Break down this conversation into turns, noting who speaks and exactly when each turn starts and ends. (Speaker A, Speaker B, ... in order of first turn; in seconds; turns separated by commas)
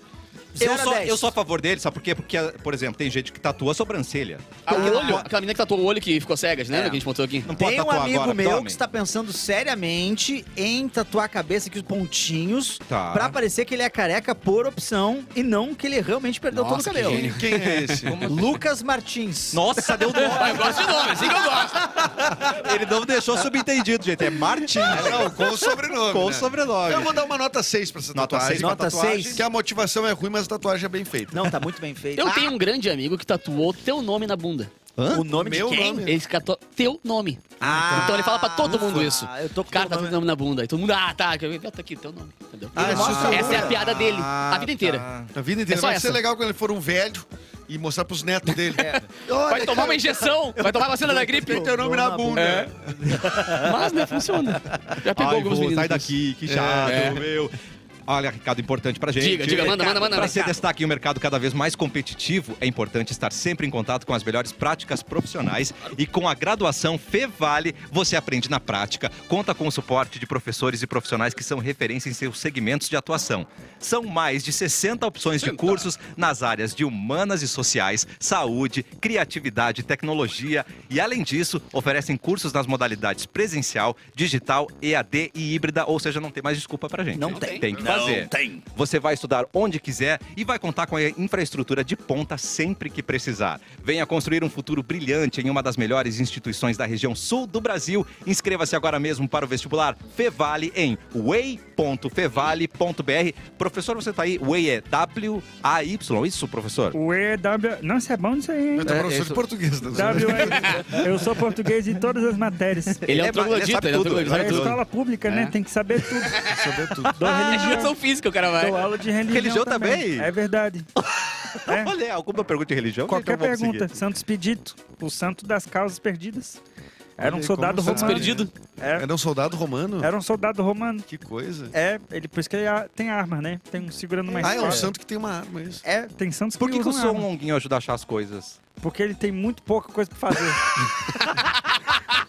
Speaker A: 0.6-1.3, Speaker B: 0.6-5.3, Speaker C: 4.7-7.5, Speaker A: 4.7-5.3, Speaker A: 6.7-17.3, Speaker B: 7.5-8.8, Speaker B: 12.9-13.4, Speaker C: 16.5-18.1, Speaker B: 17.0-17.3, Speaker D: 17.1-18.3, Speaker B: 18.0-18.6, Speaker A: 18.3-21.5, Speaker B: 19.5-27.2, Speaker C: 20.2-21.9, Speaker D: 24.8-31.6, Speaker A: 24.9-25.2, Speaker B: 28.1-29.4, Speaker A: 28.6-29.4, Speaker A: 31.3-32.5, Speaker C: 32.2-34.7, Speaker B: 35.0-35.3, Speaker A: 35.1-36.1, Speaker D: 35.3-36.2, Speaker C: 36.0-45.1, Speaker A: 37.6-40.2, Speaker B: 37.7-38.1, Speaker A: 42.8-43.8, Speaker B: 42.8-45.3, Speaker D: 42.8-43.7, Speaker D: 45.3-53.3, Speaker C: 45.7-46.2, Speaker C: 48.8-51.7, Speaker A: 51.4-53.9, Speaker C: 52.4-52.7, Speaker C: 53.6-56.1, Speaker B: 55.2-57.5, Speaker D: 56.5-57.2, Speaker C: 56.8-57.2, Speaker B: 58.1-107.0, Speaker C: 59.2-60.4, Speaker A: 59.5-60.6, Speaker C: 75.4-75.9, Speaker A: 87.2-88.6, Speaker C: 87.3-87.8, Speaker E: 106.9-109.1, Speaker D: 108.8-111.1, Speaker B: 108.9-109.4, Speaker E: 109.9-113.0, Speaker C: 110.3-110.9, Speaker B: 113.0-114.8, Speaker C: 113.1-115.5, Speaker E: 114.2-116.5, Speaker C: 116.2-116.6, Speaker D: 116.4-117.5, Speaker E: 117.1-118.0, Speaker C: 117.5-118.9, Speaker E: 118.6-120.9, Speaker B: 119.3-120.3, Speaker B: 121.0-123.9, Speaker E: 121.7-121.9, Speaker E: 123.1-126.6, Speaker E: 127.2-129.1, Speaker D: 127.2-130.1, Speaker C: 127.8-128.5, Speaker E: 130.0-131.1, Speaker D: 131.1-131.7, Speaker E: 131.7-134.9, Speaker A: 134.3-134.8, Speaker D: 134.4-135.8, Speaker A: 135.8-136.1, Speaker E: 136.1-137.3, Speaker B: 136.6-138.6, Speaker E: 138.8-141.4